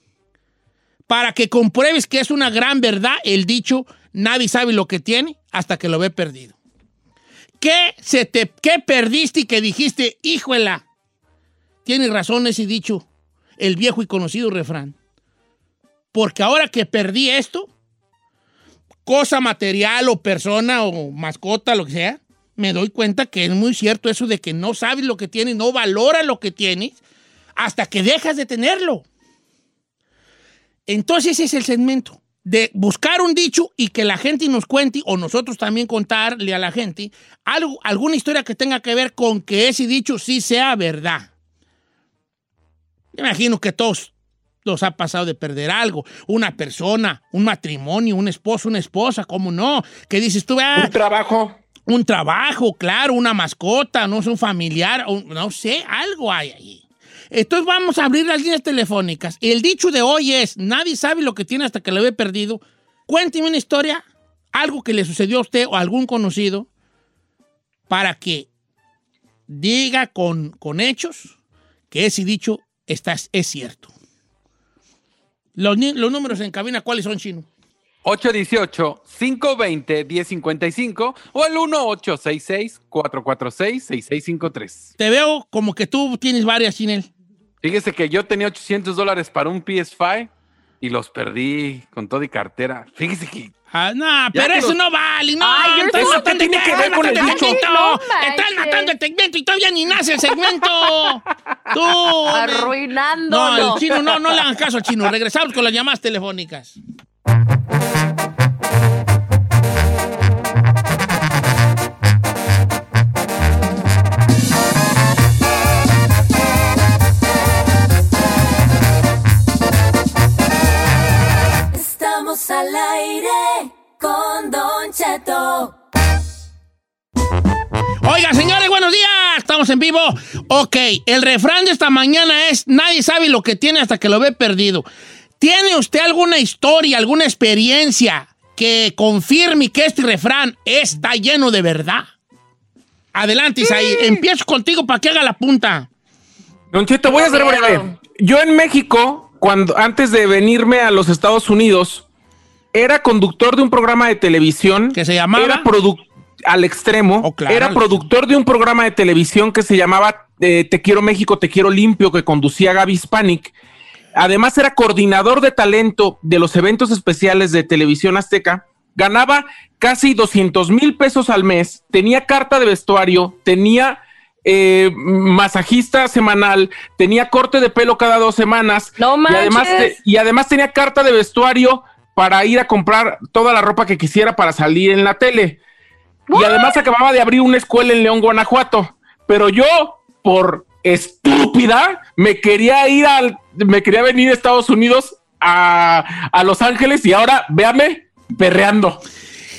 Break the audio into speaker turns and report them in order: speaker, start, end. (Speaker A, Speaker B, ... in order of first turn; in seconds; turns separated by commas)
Speaker A: 1.1-6.5, Speaker A: 7.6-10.8, Speaker A: 11.8-13.1, Speaker A: 13.6-14.9, Speaker A: 16.1-17.7, Speaker A: 19.1-27.0, Speaker A: 27.6-29.0, Speaker A: 30.9-41.3, Speaker A: 43.1-44.1, Speaker A: 44.6-51.0, Speaker B: 50.7-51.6, Speaker A: 51.9-66.7, Speaker A: 67.9-68.5, Speaker A: 69.5-71.3, Speaker A: 71.9-73.9, Speaker A: 75.6-77.5, Speaker C: 78.0-84.9, Speaker A: 85.0-87.1, Speaker C: 87.6-90.3, Speaker C: 90.8-93.5, Speaker A: 93.7-102.7, Speaker B: 94.4-94.7, Speaker D: 95.4-98.9, Speaker B: 95.5-97.6, Speaker D: 102.3-103.9, Speaker A: 103.3-106.8, Speaker E: 121.7-125.8, Speaker A: 128.0-134.9, Speaker A: 135.4-142.1, Speaker A: 143.1-145.9, Speaker D: 143.6-144.2, Speaker B: 146.7-152.1, Speaker D: 147.1-147.8, Speaker B: 152.7-163.5, Speaker A: 154.9-155.7, Speaker A: 157.2-158.0, Speaker B: 164.2-185.6, Speaker D: 179.0-180.0, Speaker D: 186.3-186.8, Speaker B: 186.3-199.0